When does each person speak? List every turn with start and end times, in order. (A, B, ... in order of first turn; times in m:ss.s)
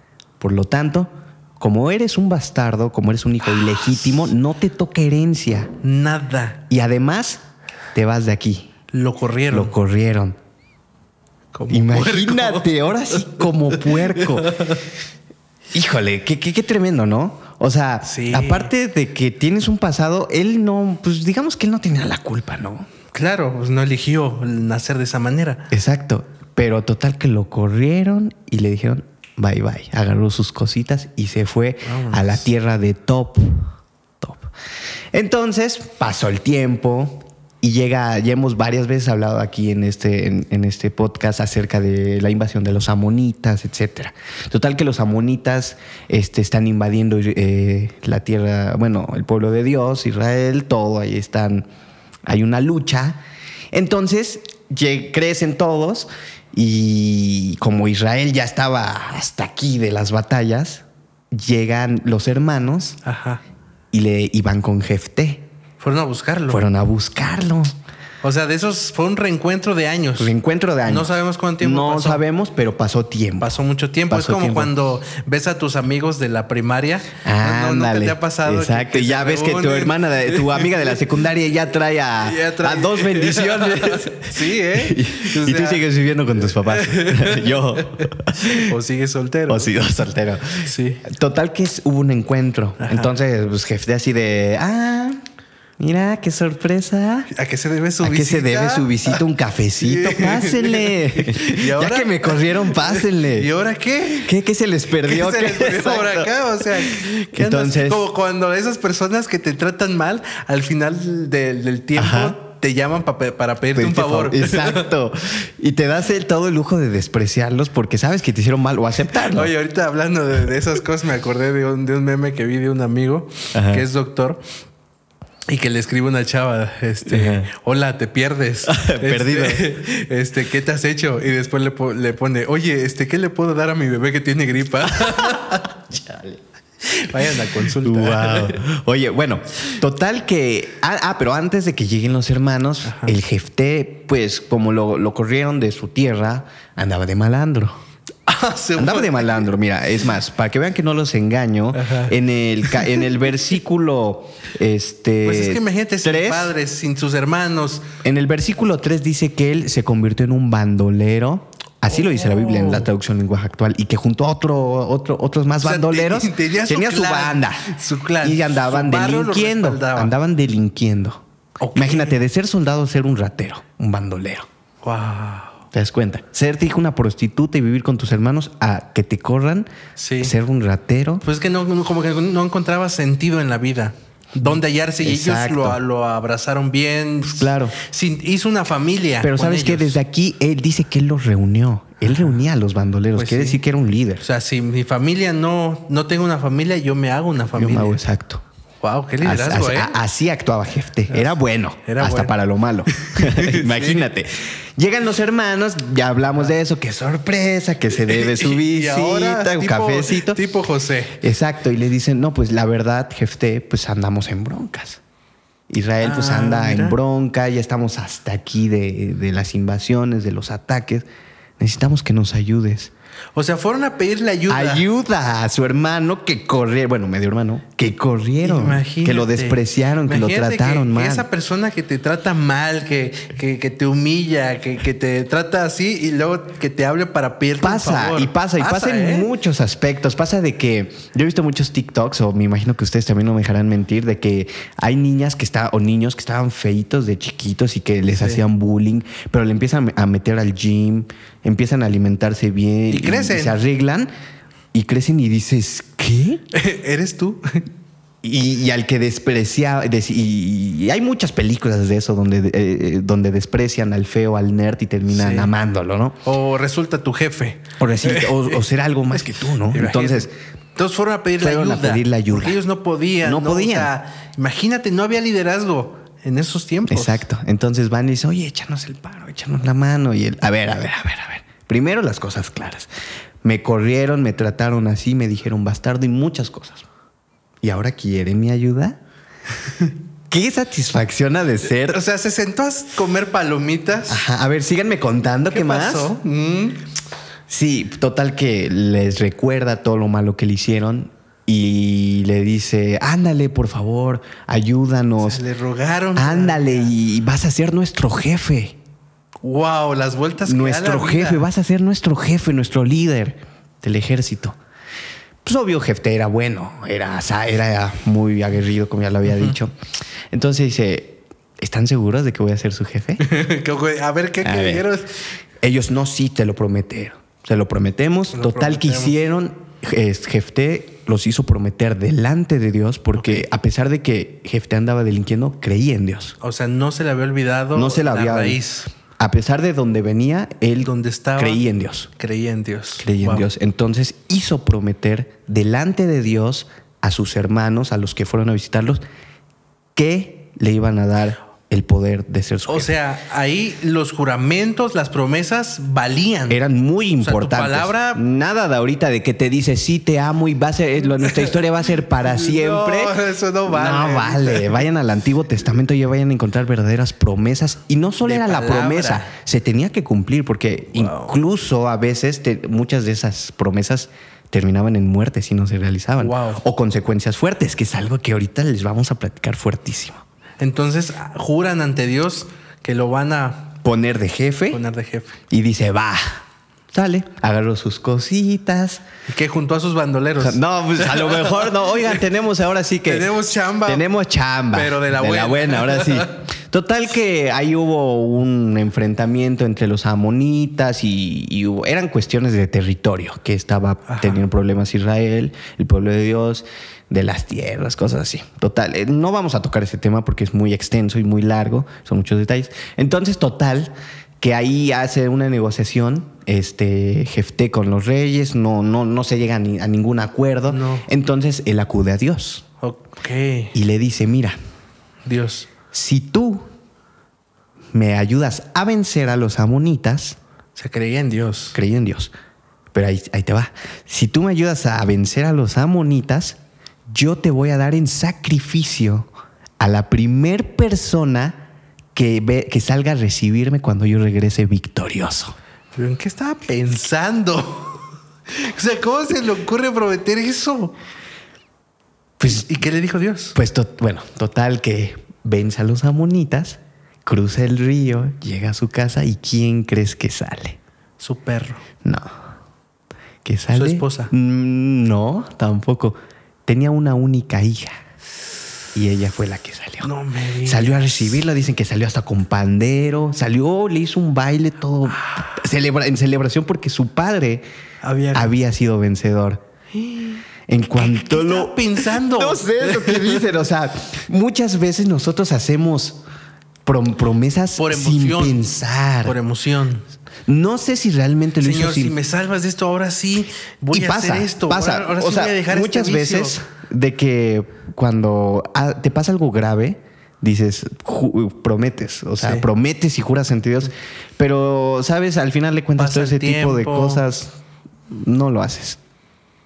0:00.4-0:05.7 A
0:05.8-0:06.6 B
0:06.7-0:07.4 A
0:07.9-0:08.7 A
0:08.9-0:09.7 B
0:09.5-0:10.4 A
0:11.5-0:14.8 B
0:11.7-0:14.6 A
0:15.7-0:22.9 A
0:18.0-0:18.7 B
0:23.1-0:25.7 B
0:25.7-0:33.7 A
0:31.8-0:32.4 B
0:34.2-0:34.5 A
0:35.1-0:51.6 A
0:52.2-0:53.2 A
0:53.7-1:03.0 A
1:03.0-1:03.4 B
1:03.9-1:05.5 A
1:05.8-1:06.6 B
1:06.5-1:07.7 A
1:08.2-1:10.3 B
1:10.2-1:13.5 A
1:10.8-1:12.2 B
1:13.4-1:21.0 B
1:14.1-1:14.7 A
1:17.2-1:28.7 A
1:22.2-1:25.8 B
1:26.4-1:29.7 B
1:29.5-1:35.2 A
1:30.6-1:31.0 B
1:32.8-1:33.1 B
1:35.8-1:37.3 A
1:37.3-1:39.2 B
1:38.0-1:43.5 A
1:39.8-1:44.3 B
1:44.2-1:48.0 A
1:45.0-1:54.9 B
1:52.0-1:52.4 A
1:53.7-1:59.5 A
1:59.3-2:04.4 B
2:03.5-2:03.8 A
2:05.5-2:15.7 B
2:07.0-2:07.5 A
2:08.6-2:09.7 A
2:15.0-2:16.4 A
2:16.8-2:18.6 B
2:17.7-2:27.8 A
2:22.8-2:23.2 B
2:28.3-2:29.4 B
2:28.8-2:36.5 A
2:31.7-2:32.1 B
2:32.6-2:33.0 B
2:35.2-2:37.8 B
2:38.0-2:47.7 A
2:41.9-2:42.9 B
2:45.6-2:50.1 B
2:48.2-2:51.2 A
2:51.6-2:52.2 B
2:51.7-2:54.5 A
2:54.8-2:55.6 B
2:55.7-2:59.7 A
3:00.0-3:00.3 B
3:00.2-3:01.2 A
3:01.2-3:10.0 B
3:05.0-3:05.8 A
3:07.2-3:07.7 A
3:09.2-3:14.2 A
3:12.1-3:12.4 B
3:13.1-3:13.6 B
3:14.2-3:18.0 B
3:17.5-3:18.4 A
3:18.8-3:20.0 B
3:19.2-3:30.4 A
3:21.8-3:22.3 B
3:22.9-3:24.1 B
3:27.9-3:31.2 B
3:31.2-3:35.0 A
3:35.7-3:41.0 A
3:36.0-3:37.0 B
3:41.6-3:42.9 A
3:43.3-3:44.9 B
3:44.5-3:51.2 A
3:48.4-3:59.3 B
3:57.6-4:14.1 A
4:08.1-4:08.4 B
4:12.9-4:13.6 B
4:14.7-4:16.4 A
4:16.5-4:17.6 B
4:18.2-4:26.2 A
4:25.1-4:25.5 B
4:26.2-4:28.6 B
4:27.8-4:30.3 A
4:29.7-4:37.2 B
4:31.4-4:32.6 A
4:33.2-4:33.9 A
4:36.9-4:42.9 A
4:43.4-4:46.8 A
4:47.6-4:49.0 A
4:50.3-4:52.0 A
4:51.8-4:54.2 B
4:54.1-4:56.1 A
4:55.5-4:56.8 B
4:57.5-5:05.4 A
5:05.2-5:06.9 B
5:06.2-5:08.8 A
5:09.4-5:11.5 B
5:10.4-5:14.6 A
5:15.4-5:19.7 A
5:19.3-5:19.5 B
5:20.3-5:23.2 A
5:23.2-5:25.2 B
5:24.4-5:24.9 A
5:25.6-5:36.4 A
5:28.3-5:29.2 B
5:33.2-5:33.4 B
5:36.4-5:38.9 B
5:37.7-5:38.6 A
5:39.2-5:42.1 A
5:40.8-5:41.6 B
5:42.2-5:43.5 B
5:43.0-5:49.0 A
5:49.9-5:52.9 A
5:52.7-5:56.6 B
5:56.5-6:20.2 A
5:57.2-5:58.2 B
6:01.2-6:04.8 B
6:08.2-6:09.3 B
6:10.9-6:11.3 B
6:16.2-6:16.6 B
6:20.6-6:23.7 B
6:23.8-6:24.8 A
6:24.7-6:25.4 B
6:25.5-6:26.4 A
6:26.9-6:29.0 A
6:29.3-6:32.2 B
6:30.4-6:33.3 A
6:33.0-6:34.0 B
6:33.8-7:02.6 A
6:34.7-6:36.4 B
6:44.1-6:44.4 B
7:00.7-7:01.1 B
7:02.8-7:03.7 B
7:03.7-7:04.6 A
7:05.2-7:05.7 B
7:05.9-7:06.6 A
7:07.9-7:10.4 A
7:10.8-7:11.8 B
7:11.7-7:12.3 A
7:12.9-7:16.6 A
7:17.1-7:21.6 A
7:22.1-7:25.6 A
7:26.0-7:30.9 B
7:32.4-7:32.7 A
7:32.4-7:33.6 B
7:33.6-7:40.8 A
7:41.2-7:41.8 B
7:42.0-7:42.3 A
7:43.4-7:48.0 A
7:43.7-7:44.3 B
7:48.9-7:50.1 A
7:50.0-7:51.4 B
7:50.6-7:57.6 A
7:58.0-7:58.5 B
7:58.3-7:59.6 A
7:59.9-8:00.4 B
8:00.7-8:06.2 A
8:01.0-8:03.5 B
8:06.8-8:09.3 A
8:07.8-8:08.6 B
8:09.2-8:10.0 B
8:10.5-8:12.2 A
8:11.6-8:16.6 B
8:13.9-8:27.6 A
8:22.4-8:22.6 B
8:26.0-8:27.2 B
8:28.1-8:29.0 A